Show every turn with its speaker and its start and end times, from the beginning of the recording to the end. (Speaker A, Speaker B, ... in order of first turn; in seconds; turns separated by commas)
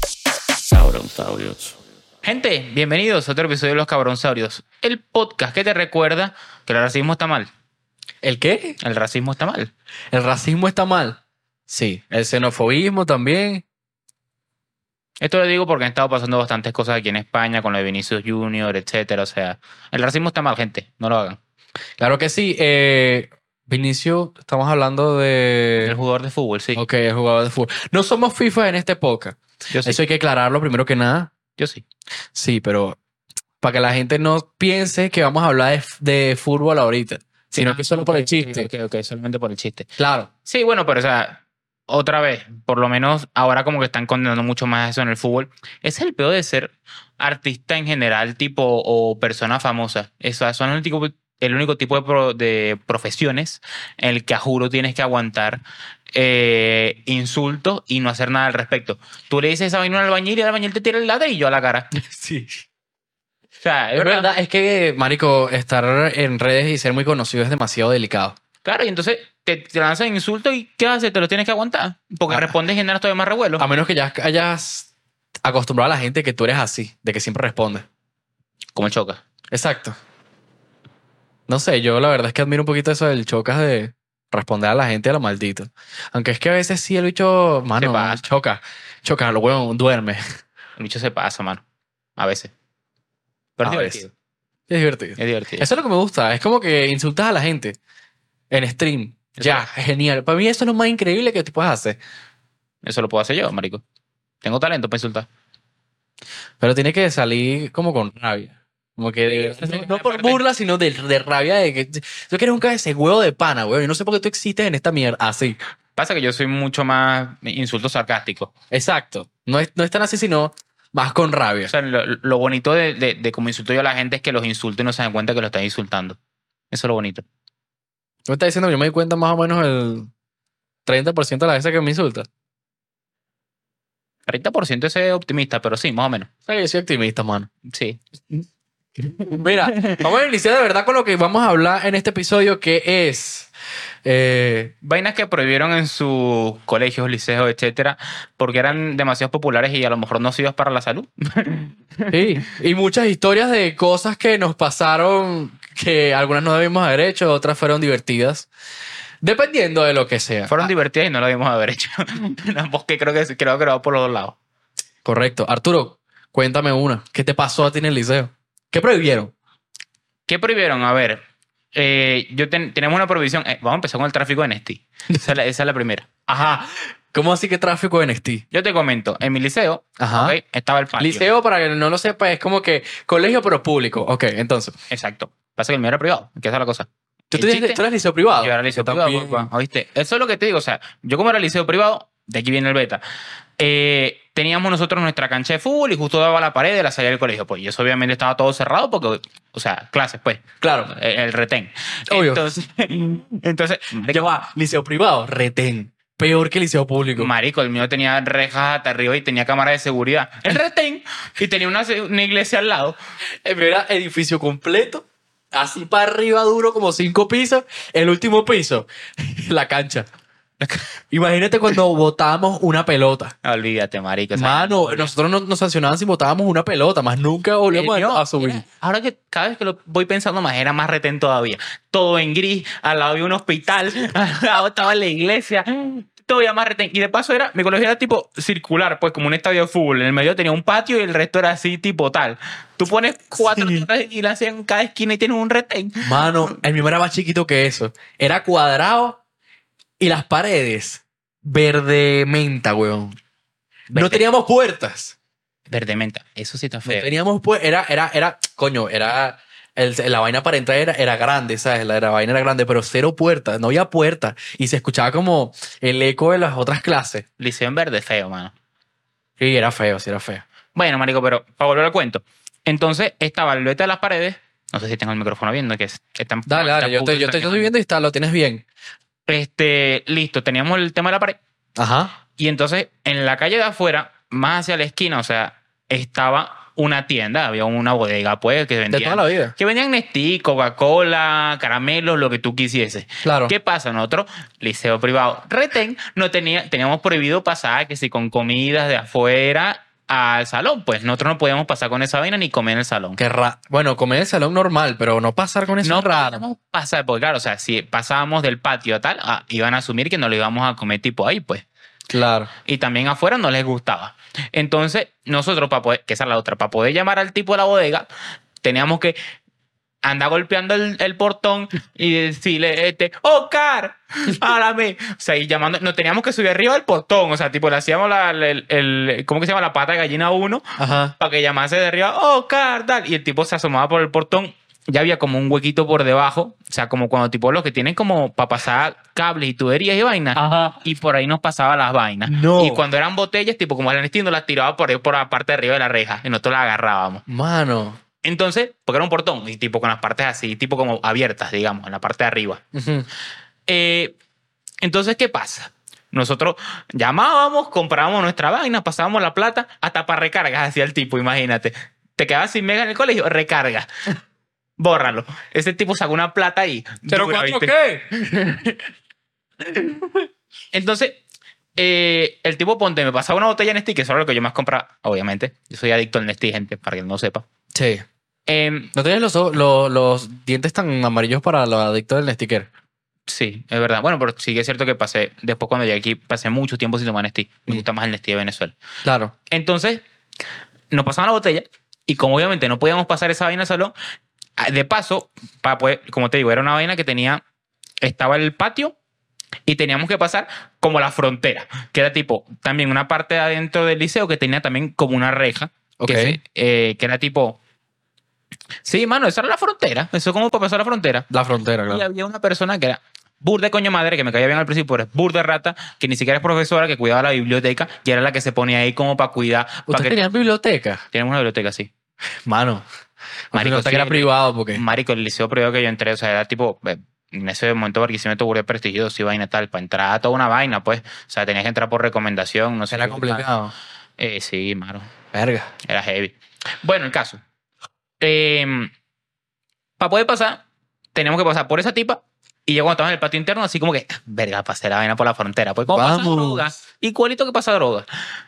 Speaker A: 0.7-1.7, Speaker B: 2.2-7.5, Speaker A: 8.2-8.8, Speaker B: 8.8-9.7, Speaker A: 10.1-13.6, Speaker B: 15.2-21.4, Speaker A: 22.0-25.9, Speaker B: 25.8-26.8, Speaker A: 26.8-31.3, Speaker B: 29.7-30.0, Speaker B: 31.6-31.9, Speaker A: 32.3-33.0, Speaker A: 33.6-38.7, Speaker B: 37.6-39.9, Speaker A: 40.0-40.3, Speaker B: 40.5-55.6, Speaker B: 56.1-61.9, Speaker A: 61.9-62.6, Speaker B: 63.6-64.3, Speaker A: 64.0-68.4, Speaker B: 68.6-73.7, Speaker A: 72.3-72.5, Speaker A: 73.6-74.9, Speaker A: 75.4-77.9, Speaker B: 78.8-79.2, Speaker A: 79.5-80.0, Speaker A: 81.5-90.2, Speaker B: 87.8-88.2, Speaker B: 90.8-91.6, Speaker B: 92.2-92.5, Speaker B: 93.6-94.1, Speaker A: 93.6-94.0, Speaker A: 94.7-97.8, Speaker B: 95.2-95.7, Speaker A: 98.5-102.0, Speaker B: 99.4-99.7, Speaker B: 102.8-103.8, Speaker B: 104.4-105.3, Speaker A: 106.6-115.6, Speaker B: 109.3-110.4, Speaker B: 116.0-118.5, Speaker A: 118.7-121.7, Speaker B: 121.7-126.2, Speaker B: 126.7-127.3, Speaker A: 128.3-130.1, Speaker A: 130.8-132.3, Speaker B: 134.3-136.3, Speaker A: 136.4-137.5, Speaker B: 137.7-138.4, Speaker B: 139.0-140.1, Speaker A: 139.4-143.5, Speaker A: 144.0-144.7, Speaker B: 144.8-152.2, Speaker A: 152.1-158.5, Speaker A: 159.2-160.7, Speaker B: 160.5-164.3, Speaker A: 165.0-169.3, Speaker B: 170.3-171.2, Speaker B: 171.7-176.1, Speaker A: 176.3-178.4, Speaker B: 178.5-181.3, Speaker A: 180.0-180.3, Speaker A: 181.0-184.8, Speaker B: 184.9-187.8, Speaker A: 187.3-189.5, Speaker B: 188.4-193.0, Speaker B: 193.6-204.3, Speaker A: 200.6-200.9, Speaker A: 202.1-202.4, Speaker A: 204.1-207.3, Speaker B: 207.2-212.9, Speaker A: 213.4-220.1, Speaker B: 220.6-220.9, Speaker A: 221.1-223.3, Speaker B: 223.4-225.1, Speaker A: 224.3-228.6, Speaker B: 227.7-246.5, Speaker A: 243.4-243.8, Speaker A: 246.0-249.2, Speaker A: 250.0-253.2, Speaker B: 253.9-254.2, Speaker A: 253.9-255.1, Speaker B: 255.7-257.1, Speaker A: 256.9-267.2, Speaker B: 267.4-268.5, Speaker A: 269.4-270.4, Speaker B: 270.8-277.7, Speaker A: 276.5-278.6, Speaker B: 279.3-281.4, Speaker A: 281.8-282.1, Speaker B: 282.4-303.2, Speaker A: 288.9-289.6, Speaker A: 293.2-293.5, Speaker A: 303.2-306.4, Speaker B: 305.8-311.6, Speaker A: 312.1-312.5, Speaker B: 312.6-318.1, Speaker B: 318.6-319.1, Speaker B: 320.0-330.6, Speaker A: 330.8-331.1, Speaker B: 331.2-347.2, Speaker A: 340.4-340.8, Speaker A: 342.3-342.8, Speaker A: 347.3-348.0, Speaker B: 348.2-352.6, Speaker A: 352.7-353.1, Speaker B: 353.7-354.1, Speaker B: 354.8-363.9, Speaker B: 364.8-367.7, Speaker A: 367.1-368.2, Speaker A: 369.7-370.2, Speaker B: 370.7-371.2, Speaker B: 371.8-377.4, Speaker A: 377.7-378.1, Speaker B: 378.5-378.9, Speaker A: 378.9-382.7, Speaker B: 383.3-388.8, Speaker A: 389.1-389.3, Speaker B: 389.5-390.0, Speaker B: 390.9-393.9, Speaker B: 394.6-397.4, Speaker B: 398.0-398.9, Speaker B: 399.7-407.6, Speaker A: 406.0-406.4, Speaker B: 408.8-411.3, Speaker A: 411.3-412.1, Speaker B: 411.9-420.2, Speaker A: 419.9-421.0, Speaker B: 421.1-421.9, Speaker A: 422.4-422.8, Speaker A: 423.5-424.8, Speaker B: 423.5-433.4, Speaker A: 432.9-433.7, Speaker B: 434.2-435.1, Speaker A: 435.3-435.7, Speaker B: 435.8-437.4, Speaker B: 438.2-438.9, Speaker B: 440.0-440.6, Speaker B: 441.1-448.1, Speaker A: 445.9-446.7